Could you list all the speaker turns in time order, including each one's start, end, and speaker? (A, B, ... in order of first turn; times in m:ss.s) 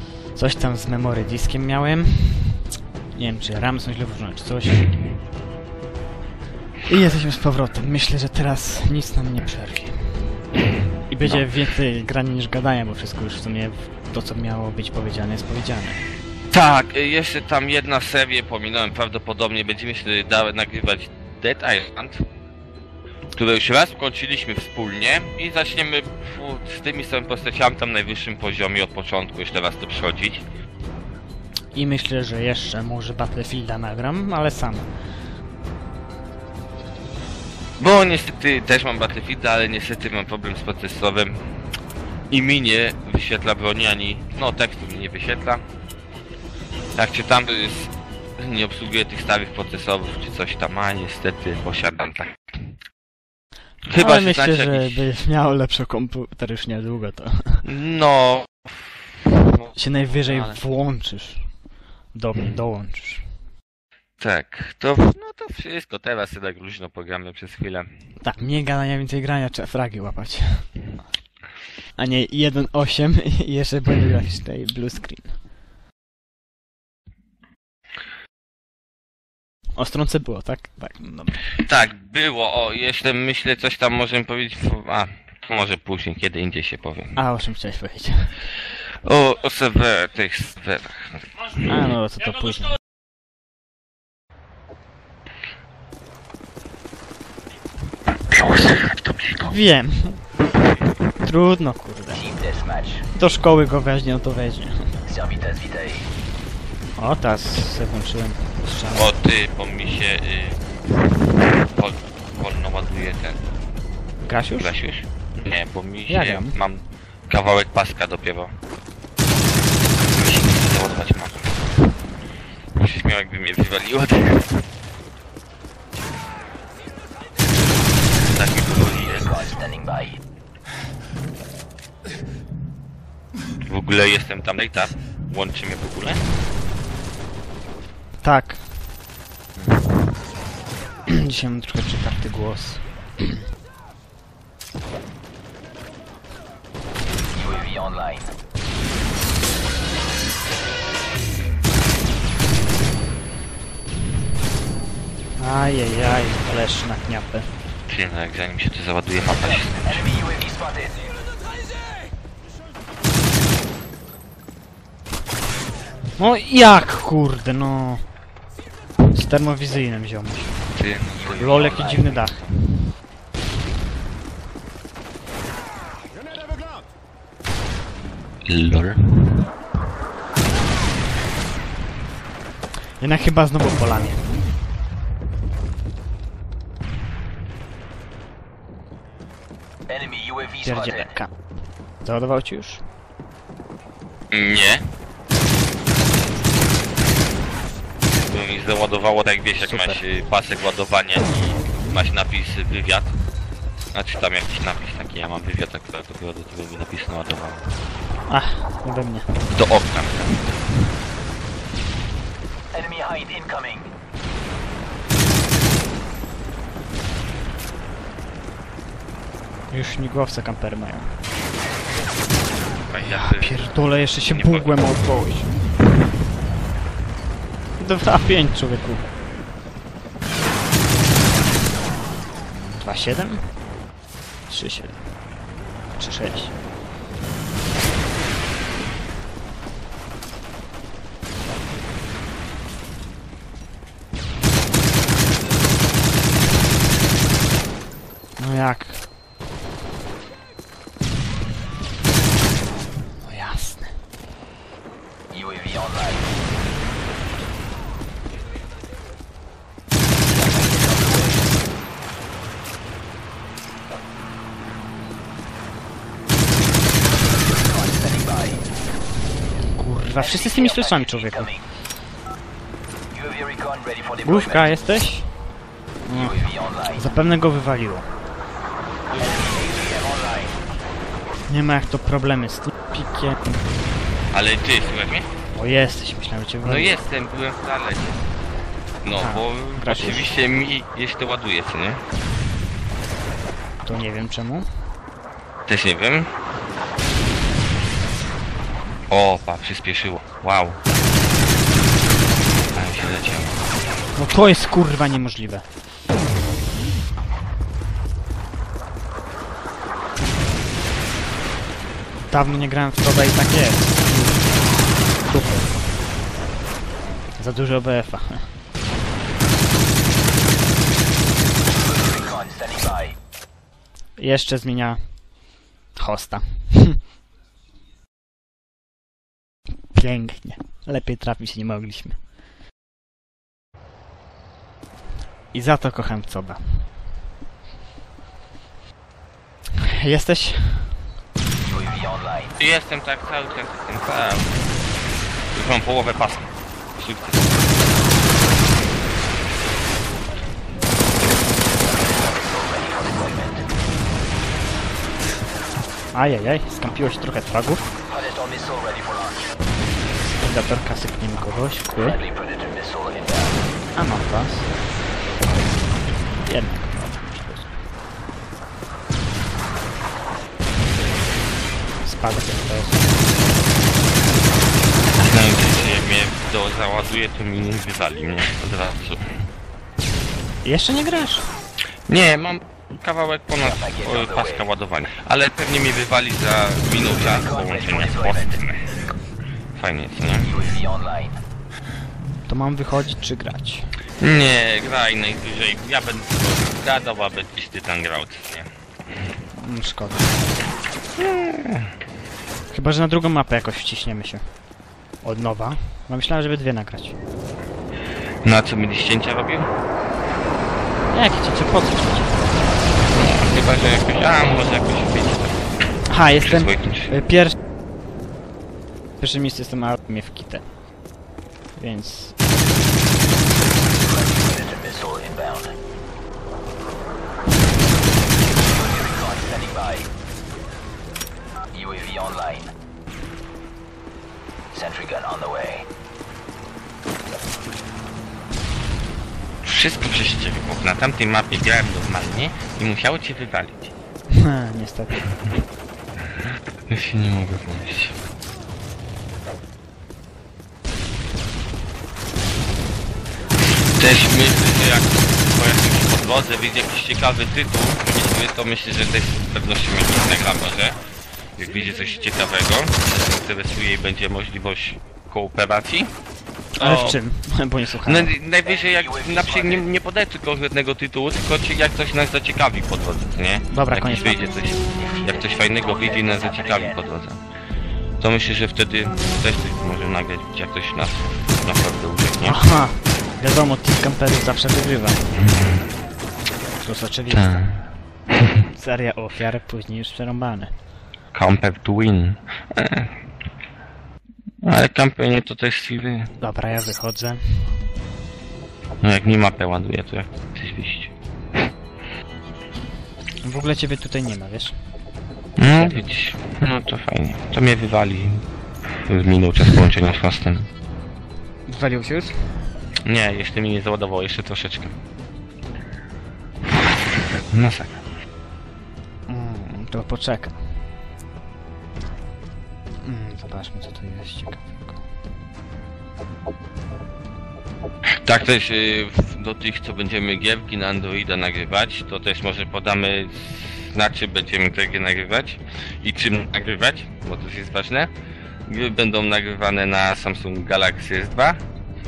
0:00.3-0:05.0 A
0:06.8-0:10.4 A
0:11.1-0:16.0 A
0:16.5-0:22.2 B
0:23.3-0:30.4 B
0:31.7-0:35.0 A
0:37.8-0:41.4 B
0:42.3-0:45.6 B
0:46.9-0:52.6 B
0:53.8-0:55.0 B
0:54.0-0:57.6 A
0:57.6-1:00.6 B
0:59.7-1:01.5 A
1:02.1-1:03.3 A
1:04.2-1:07.9 B
1:08.2-1:10.8 A
1:12.0-1:15.4 A
1:19.8-1:21.5 A
1:21.6-1:27.1 B
1:27.1-1:28.4 A
1:29.0-1:31.6 B
1:31.6-1:32.8 A
1:38.3-1:39.5 B
1:39.4-1:40.3 A
1:41.2-1:42.4 A
1:42.4-1:43.0 C
1:43.1-1:45.0 A
1:45.1-1:46.0 C
1:47.0-1:49.1 A
1:48.9-1:50.6 B
1:51.6-1:53.4 B
1:54.2-1:54.8 A
1:54.5-1:58.5 B
1:56.1-1:56.6 A
2:00.1-2:01.5 B
2:02.8-2:04.6 B
2:08.2-2:09.5 B
2:09.5-2:10.1 C
2:13.6-2:16.2 B
2:18.2-2:18.6 A
2:21.1-2:23.4 A
2:27.4-2:28.2 C
2:35.4-2:37.5 A
2:37.9-2:40.2 B
2:40.3-2:40.9 C
2:46.2-2:48.0 A
2:49.1-2:50.6 A
2:50.7-2:52.3 B
2:51.3-2:52.7 A
2:58.4-2:59.3 B
3:03.0-3:04.4 A
3:09.9-3:10.6 C
3:10.6-3:11.4 A
3:12.0-3:12.8 A
3:14.3-3:14.9 B
3:18.3-3:23.1 B
3:19.6-3:20.0 A
3:23.9-3:27.7 B
3:28.2-3:29.3 A
3:29.5-3:30.5 B
3:32.7-3:33.9 C
3:39.7-3:41.1 A
3:42.9-3:43.7 B
3:43.0-3:45.6 A
3:44.3-3:44.7 B
3:47.8-3:49.0 A
3:52.5-3:53.5 A
3:54.5-3:55.0 A
3:55.9-3:56.5 A
4:08.4-4:09.0 A
4:13.2-4:14.0 A
4:27.8-4:28.5 C
4:29.7-4:31.5 A
4:33.2-4:34.2 C
4:34.2-4:35.4 A
4:36.0-4:38.1 A
4:39.1-4:39.7 B
4:39.8-4:40.4 C
4:41.5-4:43.6 A
4:44.3-4:45.3 B
4:45.5-4:47.0 A
4:46.6-4:48.2 B
4:49.0-4:52.0 B
4:49.1-4:50.3 A
4:53.8-4:54.7 A
4:55.7-4:56.3 B
4:59.1-5:00.8 B
5:02.7-5:03.6 B
5:04.1-5:05.6 A
5:12.3-5:14.6 A
5:15.2-5:15.7 A
5:17.4-5:18.5 A
5:22.0-5:23.1 C
5:24.2-5:25.2 A
5:25.9-5:27.0 A
5:29.9-5:32.2 A
5:35.5-5:36.9 A
5:40.0-5:41.0 A
5:41.7-5:42.3 C
5:42.6-5:44.6 B
5:45.5-5:47.6 B
5:52.1-5:53.6 C
5:56.1-5:57.9 A
5:58.2-5:59.4 C
6:00.4-6:02.2 A
6:02.2-6:03.5 C
6:03.9-6:04.7 A
6:06.4-6:07.7 A
6:12.0-6:13.0 A
6:15.2-6:19.5 B
6:20.6-6:21.5 A
6:22.1-6:29.1 B
6:23.8-6:24.4 C
6:29.8-6:30.7 B
6:30.7-6:31.3 C
6:32.4-6:33.9 A
6:34.2-6:38.7 B
6:39.5-6:40.5 A
6:41.2-6:41.9 B
6:42.7-6:44.4 A
6:45.2-6:47.2 A
6:48.4-6:49.7 B
6:51.1-6:52.5 A
6:53.1-6:57.1 B
6:56.1-6:57.5 A
6:59.2-7:00.6 A
7:01.8-7:02.3 A
7:04.1-7:05.7 C
7:08.9-7:10.0 C
7:11.8-7:12.6 C
7:14.8-7:15.8 C
7:19.6-7:23.9 B
7:24.3-7:25.3 A
7:26.9-7:28.2 B
7:34.0-7:41.0 B
7:41.6-7:46.1 B
7:46.8-7:48.3 A
7:46.8-7:47.2 B
7:48.0-7:57.4 B
7:53.7-7:54.8 A
7:58.2-8:02.6 B
8:02.4-8:05.3 A
8:05.3-8:05.8 B
8:06.8-8:07.7 A
8:07.3-8:07.9 B
8:08.7-8:10.7 A
8:11.3-8:13.1 B
8:14.6-8:16.3 B
8:16.4-8:17.8 A
8:19.0-8:21.1 B
8:23.4-8:24.8 A
8:25.6-8:28.4 B
8:25.7-8:26.1 A
8:29.0-8:30.7 B
8:31.7-8:32.6 A
8:33.0-8:34.9 B
8:37.5-8:38.0 B
8:39.3-8:40.6 A
8:43.0-8:45.0 A
8:48.2-8:58.1 B
8:58.7-9:01.6 B